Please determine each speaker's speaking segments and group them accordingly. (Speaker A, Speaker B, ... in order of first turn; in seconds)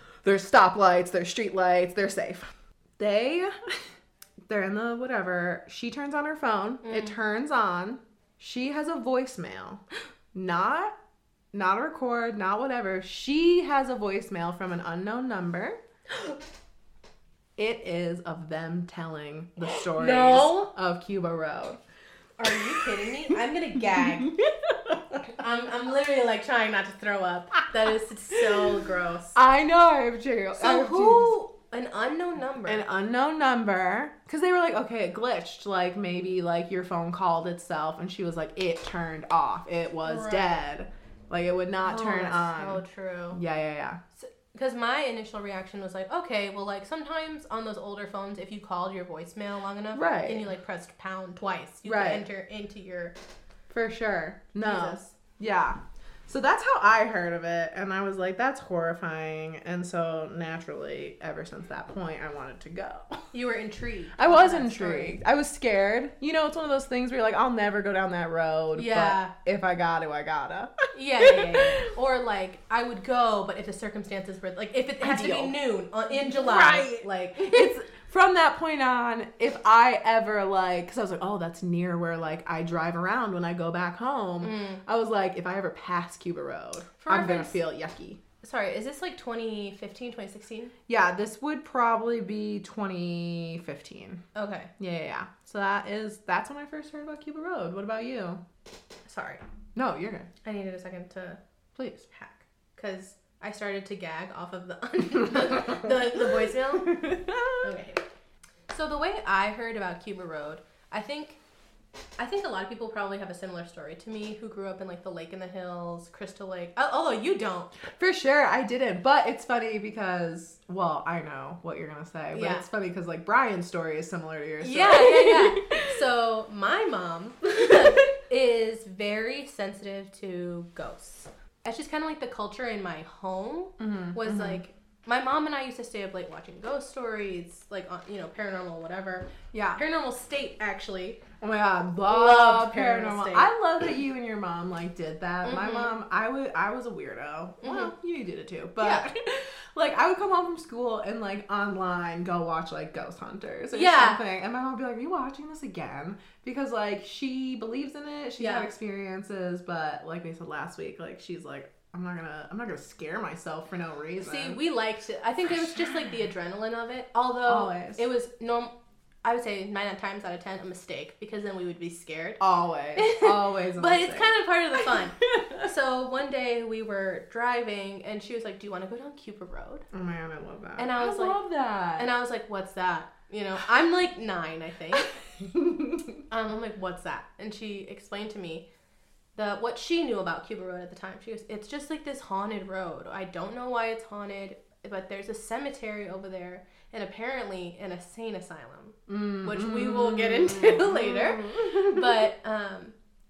Speaker A: 0.2-3.9, 4.5-10.9, 11.5-15.8, 17.6-21.8, 22.5-23.3, 23.9-25.3, 29.4-31.4, 32.7-42.8, 43.3-44.0, 49.9-50.5, 51.9-52.3, 53.7-63.3, 64.2-71.8, 75.0-75.6, 76.1-88.2, 90.9-94.2, 94.8-98.4, 99.8-100.3, 101.8-102.1, 106.8-107.7, 117.9-126.0, 127.6-128.0, 133.8-134.6, 139.5-139.8, 141.4-164.6, 167.4-168.1, 172.4-174.4, 174.9-175.6, 179.9-182.1, 185.4-186.2, 199.1-202.2
Speaker B: 6.8-7.2, 19.7-20.7, 22.4-24.3, 25.3-29.4, 30.6-32.9, 40.0-40.6, 41.8-43.4, 44.2-53.1, 54.6-55.1, 63.3-65.2, 68.8-69.3, 70.9-77.7, 84.4-84.8, 87.0-87.6, 88.4-90.7, 94.3-94.7, 99.1-99.4, 100.4-101.4, 102.1-108.0, 108.7-111.4, 112.2-117.8, 122.3-122.7, 124.6-141.2, 142.1-143.5, 145.4-145.9, 147.6-147.9, 148.8-149.1, 153.7-154.2, 158.4-158.7, 164.2-168.7, 169.2-172.4, 173.0-179.9, 180.8-181.4, 182.0-185.2, 186.3-188.7, 189.3-202.9